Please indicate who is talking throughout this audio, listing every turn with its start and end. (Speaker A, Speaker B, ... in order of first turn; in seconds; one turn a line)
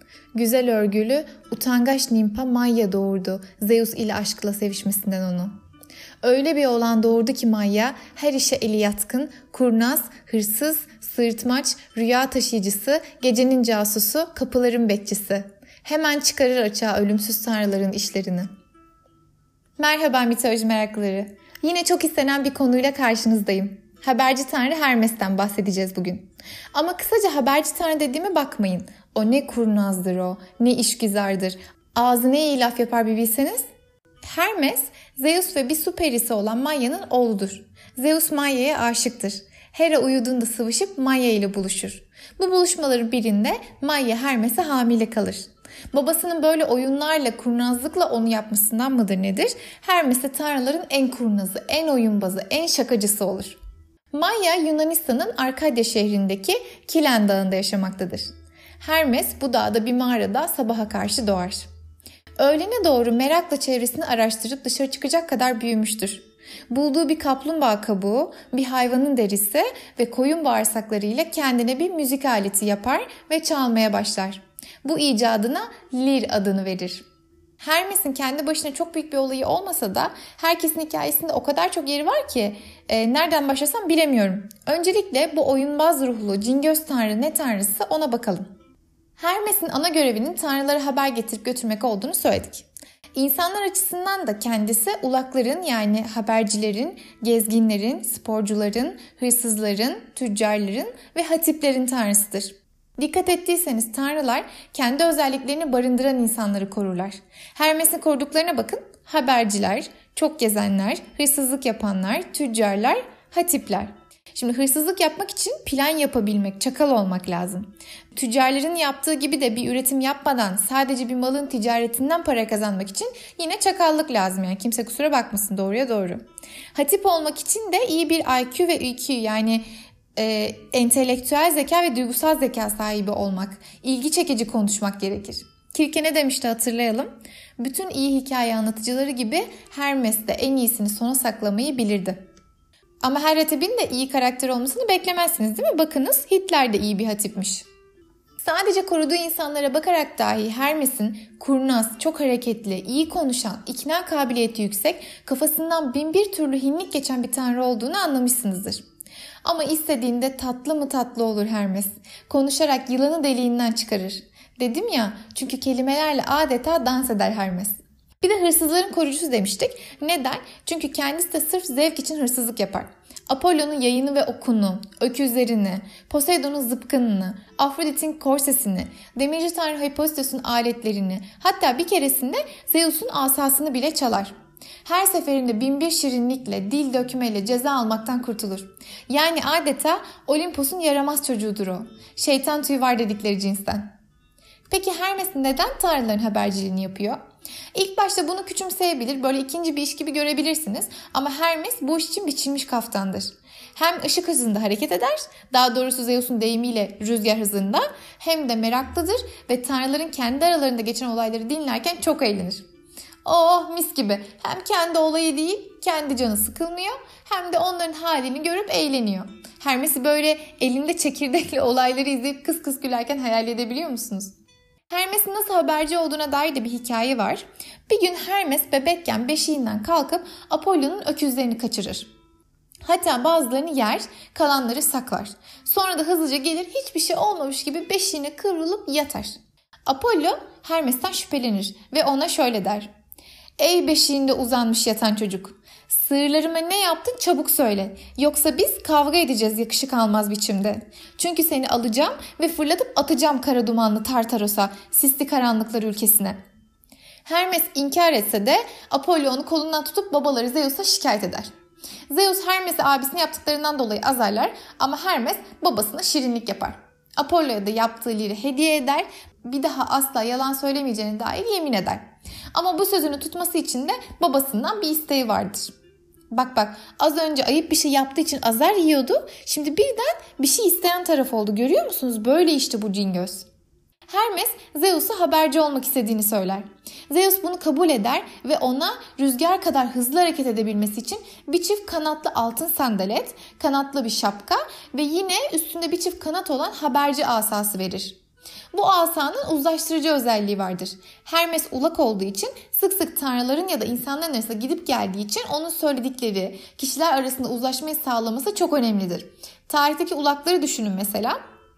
Speaker A: 0.3-5.5
Speaker A: 6.2-18.5
Speaker A: 19.8-33.6
Speaker A: 34.2-53.6
Speaker A: 54.1-58.2
Speaker A: 58.8-61.7
Speaker A: 62.4-77.0
Speaker A: 77.6-88.5
Speaker A: 89.2-129.6
Speaker A: 130.2-142.2
Speaker A: 143.0-147.6
Speaker A: 148.4-158.8
Speaker A: 159.4-184.3
Speaker A: 184.8-193.9
Speaker A: 194.7-197.2
Speaker A: 197.7-212.6
Speaker A: 213.2-224.3
Speaker A: 224.9-232.1
Speaker A: 232.8-242.9
Speaker A: 243.6-256.4
Speaker A: 257.2-261.5
Speaker A: 262.1-275.7
Speaker A: 276.3-283.5
Speaker A: 284.1-298.2
Speaker A: 298.7-311.4